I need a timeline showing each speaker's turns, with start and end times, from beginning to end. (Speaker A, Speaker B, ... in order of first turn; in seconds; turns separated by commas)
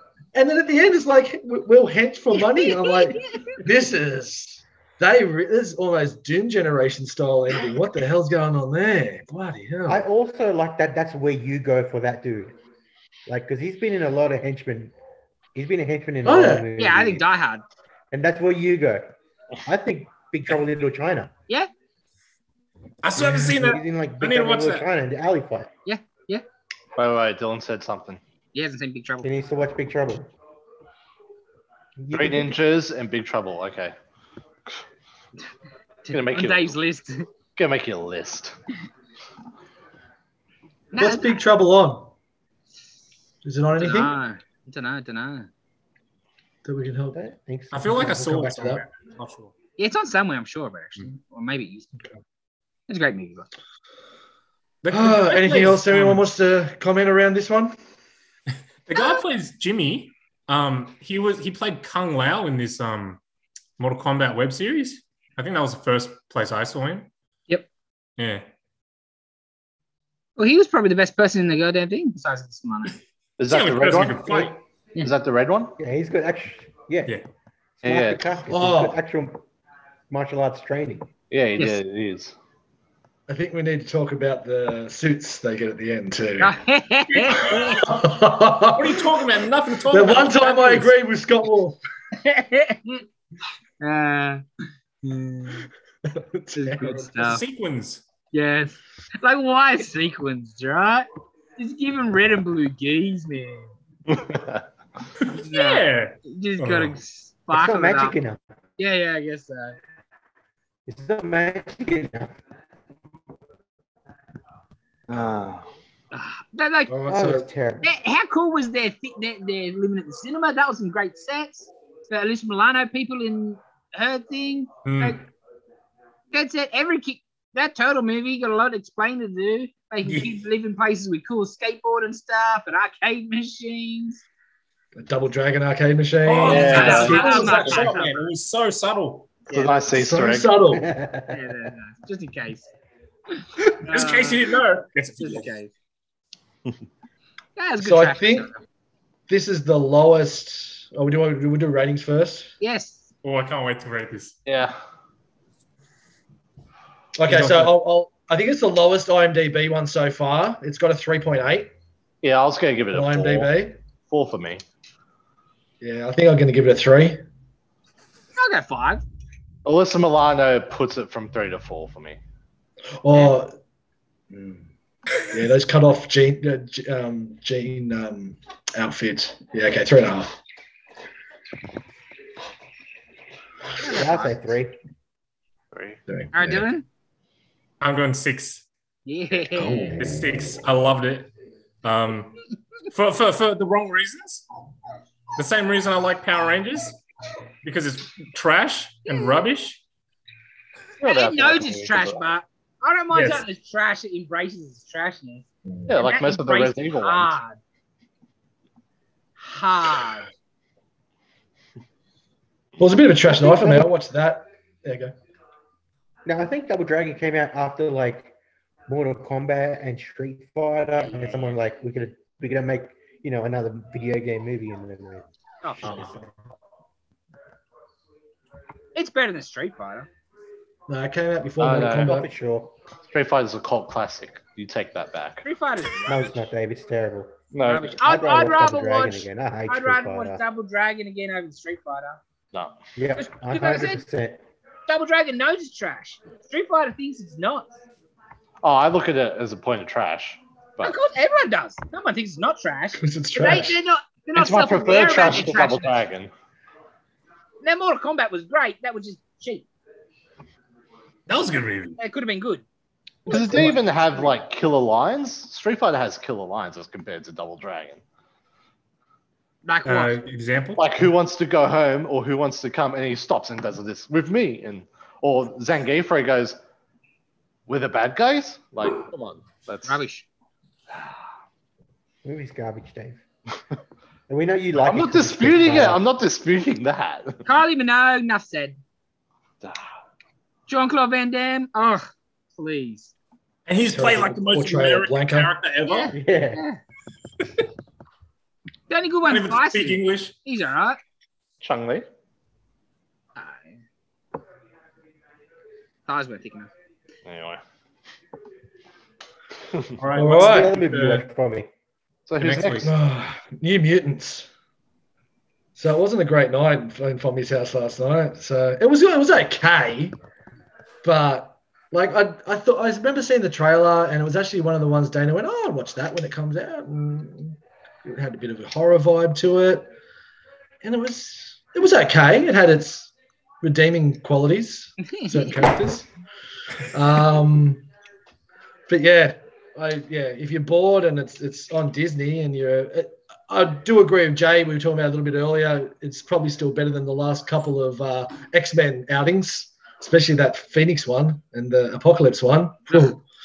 Speaker A: 0.3-10.0, Speaker B: 2.4-3.6, Speaker C: 9.9-12.6, Speaker C: 13.3-14.9, Speaker C: 15.5-17.3, Speaker A: 16.2-16.7, Speaker B: 16.8-17.6, Speaker C: 18.1-21.3, Speaker D: 23.0-24.9, Speaker A: 23.2-23.6, Speaker C: 23.4-25.7, Speaker B: 25.9-26.4, Speaker E: 27.0-28.2, Speaker B: 28.5-29.4, Speaker C: 29.2-30.3, Speaker C: 32.0-32.6, Speaker E: 32.1-34.0, Speaker B: 36.0-37.3, Speaker E: 36.1-36.8, Speaker E: 37.6-38.6, Speaker B: 40.9-41.4, Speaker A: 41.0-42.1, Speaker A: 43.4-44.1, Speaker B: 43.8-45.5, Speaker A: 46.6-47.2, Speaker C: 47.1-48.1, Speaker D: 47.7-49.5, Speaker A: 47.9-48.8, Speaker B: 49.8-51.9, Speaker B: 52.9-53.5, Speaker D: 54.8-56.2, Speaker A: 54.9-57.8, Speaker D: 58.9-63.2, Speaker D: 63.8-67.1, Speaker D: 68.2-68.4, Speaker B: 70.4-73.0, Speaker E: 73.4-75.8, Speaker D: 73.5-74.6, Speaker C: 75.8-77.2, Speaker C: 77.8-79.4, Speaker E: 77.8-78.3, Speaker A: 78.5-79.0, Speaker C: 80.1-81.1, Speaker E: 81.3-82.3, Speaker A: 83.3-86.6, Speaker B: 86.4-87.9, Speaker A: 87.5-89.1, Speaker D: 88.7-90.9, Speaker A: 89.9-91.8, Speaker B: 92.2-93.0, Speaker B: 93.8-94.4, Speaker B: 95.0-95.7, Speaker A: 96.0-97.1, Speaker B: 96.5-97.4, Speaker D: 97.2-98.0, Speaker B: 98.3-103.7, Speaker E: 104.1-104.6, Speaker D: 105.2-107.0, Speaker B: 105.4-108.2, Speaker C: 107.5-108.4, Speaker B: 108.8-109.8, Speaker C: 110.9-112.3, Speaker E: 115.1-115.7, Speaker B: 116.1-117.0, Speaker A: 116.9-117.5, Speaker C: 117.1-117.9, Speaker B: 117.8-125.2, Speaker D: 124.8-125.2, Speaker B: 126.3-134.2, Speaker A: 135.0-138.0, Speaker D: 136.2-139.4, Speaker E: 136.4-137.2, Speaker B: 136.5-138.2, Speaker B: 139.5-139.8, Speaker E: 139.5-140.6, Speaker A: 139.9-140.9, Speaker C: 140.7-141.4, Speaker B: 141.3-142.7, Speaker B: 143.4-144.5, Speaker D: 143.8-145.5, Speaker B: 145.2-145.7, Speaker B: 147.6-148.6, Speaker A: 147.8-148.5, Speaker A: 149.3-152.5, Speaker B: 152.6-153.1, Speaker D: 153.2-154.4, Speaker E: 154.5-154.8, Speaker A: 157.2-161.7, Speaker D: 157.3-157.8, Speaker E: 162.2-163.5, Speaker A: 162.9-163.8, Speaker E: 164.1-164.6, Speaker A: 165.8-167.2, Speaker B: 168.4-169.0, Speaker E: 169.7-172.2, Speaker A: 173.0-173.6, Speaker A: 174.3-174.7, Speaker A: 175.2-180.4, Speaker B: 183.8-184.3, Speaker C: 183.8-184.8, Speaker E: 185.7-186.0, Speaker A: 186.1-186.7, Speaker B: 186.3-186.9, Speaker D: 187.8-188.7, Speaker B: 189.1-190.0, Speaker A: 189.5-190.4, Speaker D: 190.0-191.3, Speaker D: 191.8-194.4, Speaker D: 195.4-197.0, Speaker D: 197.6-199.8, Speaker B: 199.1-199.4, Speaker E: 201.0-202.2, Speaker B: 201.0-205.4, Speaker D: 203.1-203.4, Speaker E: 205.9-207.4, Speaker B: 206.0-207.6, Speaker B: 209.4-210.3, Speaker A: 212.8-215.2, Speaker C: 213.3-213.9, Speaker C: 216.2-218.3, Speaker C: 218.9-225.3, Speaker B: 221.0-221.3, Speaker B: 225.6-226.1, Speaker C: 225.8-226.3, Speaker B: 228.9-230.1, Speaker A: 230.9-232.3, Speaker E: 231.6-232.3, Speaker C: 231.8-232.8, Speaker E: 233.1-235.4, Speaker B: 235.4-236.5, Speaker C: 236.1-237.3, Speaker E: 237.5-238.0, Speaker B: 237.7-242.2, Speaker C: 237.9-240.4, Speaker E: 242.5-242.8, Speaker C: 243.0-244.4, Speaker B: 243.2-244.0, Speaker B: 244.9-247.7, Speaker E: 248.6-250.9, Speaker B: 250.8-256.0, Speaker A: 253.0-253.8, Speaker E: 254.4-256.3, Speaker B: 257.6-259.7, Speaker D: 261.3-262.0, Speaker B: 262.0-262.6, Speaker B: 263.3-263.8, Speaker E: 263.3-268.0, Speaker B: 269.6-270.2, Speaker D: 269.9-270.9, Speaker E: 270.8-276.6, Speaker E: 277.7-280.0, Speaker B: 279.9-280.3, Speaker C: 282.2-283.2, Speaker C: 284.3-286.0, Speaker E: 284.7-287.4, Speaker B: 287.5-288.8, Speaker B: 290.7-293.1, Speaker D: 293.7-296.1, Speaker A: 293.9-295.5, Speaker B: 295.9-296.8, Speaker C: 296.1-296.6, Speaker B: 298.9-301.0, Speaker D: 299.3-300.3, Speaker E: 301.6-302.1, Speaker B: 303.4-303.8, Speaker B: 306.1-306.7, Speaker E: 307.2-307.6, Speaker D: 310.0-311.2, Speaker A: 310.2-310.8, Speaker C: 310.2-311.7, Speaker E: 312.3-312.9, Speaker D: 312.4-312.9, Speaker A: 312.8-314.5, Speaker A: 315.8-320.1, Speaker A: 321.0-329.9, Speaker A: 330.8-336.1, Speaker B: 335.0-335.6, Speaker A: 336.9-337.9, Speaker A: 338.9-353.2